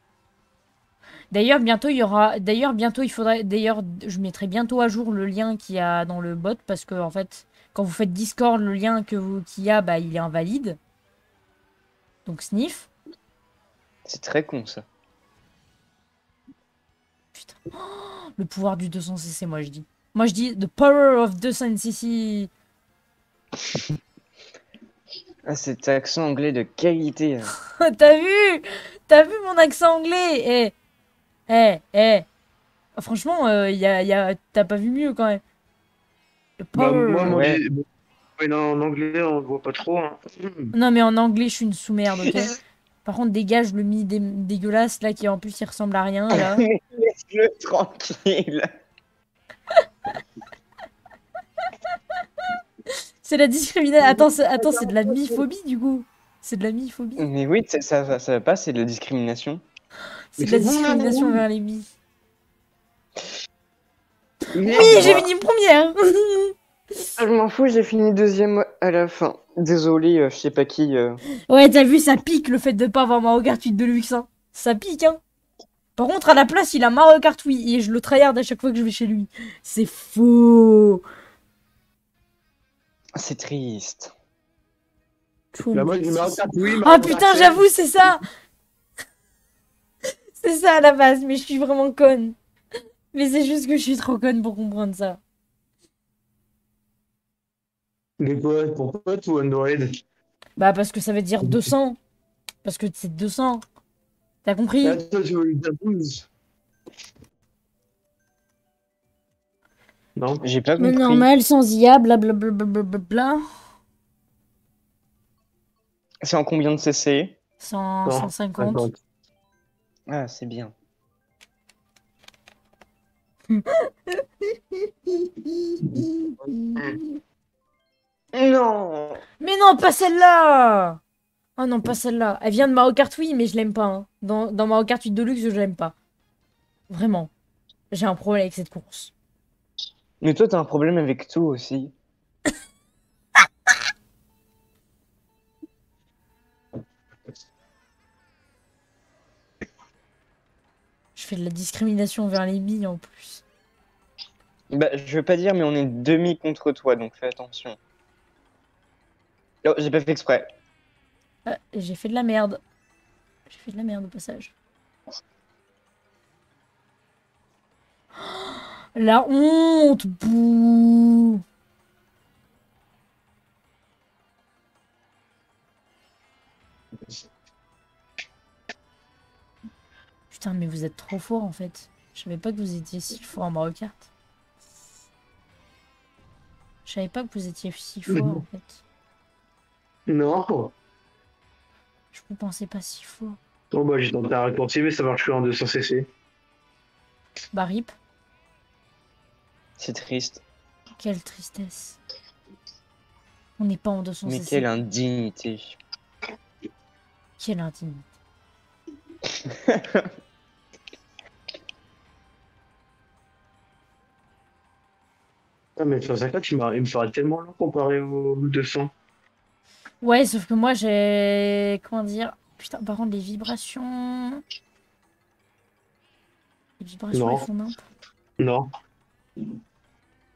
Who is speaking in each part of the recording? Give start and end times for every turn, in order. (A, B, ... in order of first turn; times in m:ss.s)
0:01.3-0:10.8 A
0:12.3-0:12.9 A
0:14.0-0:14.9 B
0:17.4-0:22.5 A
0:25.5-0:27.5 B
0:27.8-0:30.8 A
0:31.5-0:32.3 A
0:33.0-0:35.4 A
0:36.6-0:37.4 A
0:36.8-0:37.8 C
0:37.2-0:37.6 B
0:38.4-0:40.7 C
0:40.7-0:46.7 A
0:42.2-0:42.5 B
0:46.3-0:48.7 B
0:52.9-0:57.2 A
0:54.6-0:55.1 C
0:57.2-0:59.6 B
1:00.4-1:01.9 A
1:00.4-1:01.4 C
1:04.5-1:05.2 C
1:04.6-1:06.5 A
1:04.9-1:05.2 B
1:07.2-1:11.2 B
1:11.5-1:15.2 A
1:16.0-1:21.0 A
1:23.2-1:24.1 B
1:25.5-1:28.3 A
1:25.7-1:27.6 C
1:30.4-1:32.4 A
1:33.1-1:35.2 A
1:38.2-1:40.0 C
1:40.6-1:42.0 A
1:41.4-1:41.7 C
1:42.6-1:43.6 A
1:44.4-1:45.0 A
1:44.8-1:46.3 C
1:50.2-1:50.4 C
1:50.4-1:51.3 B
1:50.8-1:53.4 A
1:56.2-1:57.4 B
1:57.6-1:58.9 A
1:58.1-1:59.0 C
2:00.1-2:00.7 B
2:03.5-2:07.2 A
2:08.3-2:09.2 B
2:09.4-2:11.0 A
2:11.6-2:16.0 A
2:16.9-2:17.3 A
2:17.9-2:19.1 A
2:20.2-2:21.9 B
2:31.2-2:33.4 A
2:34.7-2:37.8 B
2:39.6-2:40.5 B
2:41.5-2:42.6 A
2:43.5-2:44.5 A
2:48.2-2:51.4 A
3:00.3-3:04.1 A
3:06.9-3:08.8 A
3:08.1-3:08.4 C
3:10.1-3:10.7 C
3:12.1-3:13.4 A
3:13.7-3:16.1 C
3:17.5-3:17.9 A
3:19.8-3:20.4 B
3:21.0-3:22.0 A
3:23.6-3:24.7 A
3:24.3-3:25.8 B
3:27.4-3:28.1 A
3:29.3-3:30.1 B
3:35.8-3:38.9 C
3:40.0-3:44.4 A
3:46.8-3:47.8 A
3:47.1-3:47.4 C
3:48.4-3:48.7 C